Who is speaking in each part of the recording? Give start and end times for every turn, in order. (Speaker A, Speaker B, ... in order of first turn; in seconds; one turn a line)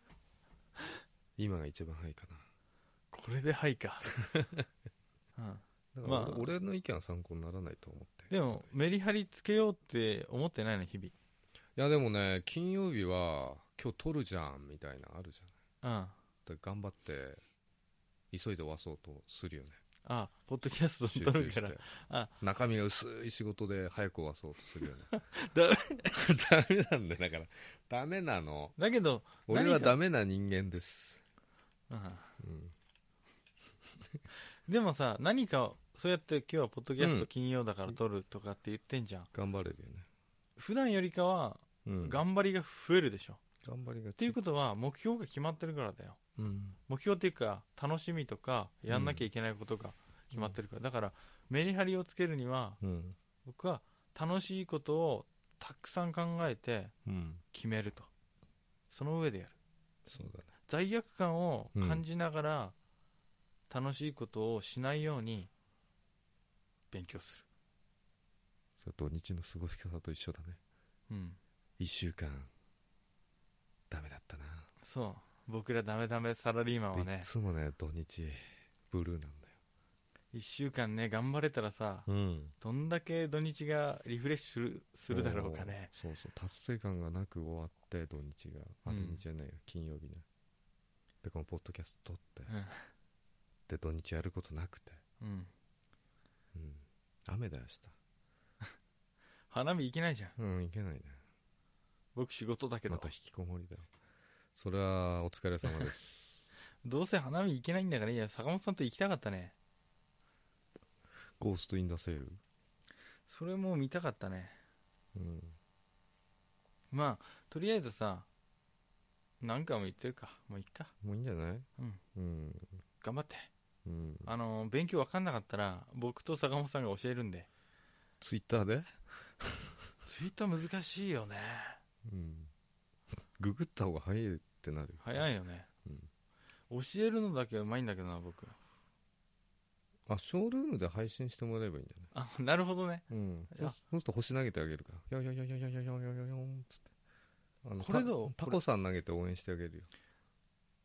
Speaker A: 1.4-2.5
Speaker B: 3.1-4.1
Speaker B: 5.4-6.5
Speaker A: 5.9-8.7
Speaker B: 8.3-11.1
Speaker A: 11.8-15.5
Speaker B: 15.8-16.1
Speaker A: 16.4-17.4
Speaker A: 18.3-19.8
Speaker B: 20.0-22.3
Speaker A: 21.0-21.9
Speaker A: 22.4-25.1
Speaker B: 25.1-26.2
Speaker A: 26.1-28.8
Speaker B: 28.8-30.0
Speaker A: 29.5-31.2
Speaker B: 31.9-32.3
Speaker A: 32.4-32.7
Speaker B: 34.6-39.3
Speaker A: 37.0-37.3
Speaker A: 39.3-40.1
Speaker B: 40.6-43.4
Speaker A: 41.8-42.2
Speaker A: 43.6-44.4
Speaker B: 44.2-46.2
Speaker A: 46.4-46.8
Speaker B: 46.9-52.8
Speaker A: 48.9-49.3
Speaker A: 52.8-53.2
Speaker B: 53.4-56.9
Speaker A: 57.0-57.4
Speaker B: 57.5-58.1
Speaker B: 58.9-59.5
Speaker A: 60.1-60.5
Speaker B: 60.7-62.7
Speaker A: 61.7-62.0
Speaker B: 63.7-65.5
Speaker B: 66.9-67.4
Speaker A: 68.8-70.6
Speaker B: 71.1-71.4
Speaker A: 71.8-72.5
Speaker A: 73.9-74.7
Speaker B: 74.8-77.3
Speaker A: 76.9-79.6
Speaker B: 80.3-82.1
Speaker A: 82.1-82.5
Speaker B: 82.6-85.9
Speaker A: 85.1-90.2
Speaker B: 88.9-89.2
Speaker A: 91.2-92.5
Speaker B: 92.5-92.9
Speaker A: 93.7-95.0
Speaker B: 95.2-95.5
Speaker A: 96.5-98.0
Speaker B: 99.5-100.3
Speaker A: 100.4-101.2
Speaker B: 102.1-103.1
Speaker A: 102.9-103.9
Speaker A: 104.5-106.5
Speaker B: 106.8-109.5
Speaker A: 111.4-112.4
Speaker B: 113.3-114.6
Speaker A: 115.1-115.6
Speaker B: 116.9-118.3
Speaker B: 119.4-120.9
Speaker A: 121.0-122.8
Speaker B: 123.0-123.5
Speaker A: 123.8-124.3
Speaker B: 124.2-127.5
Speaker A: 128.2-129.8
Speaker B: 130.0-131.8
Speaker A: 132.0-132.5
Speaker A: 133.4-135.3
Speaker B: 135.0-135.7
Speaker B: 136.7-138.6
Speaker A: 140.1-142.1
Speaker B: 142.1-143.8
Speaker A: 143.1-146.9
Speaker A: 147.6-149.9
Speaker B: 147.8-148.6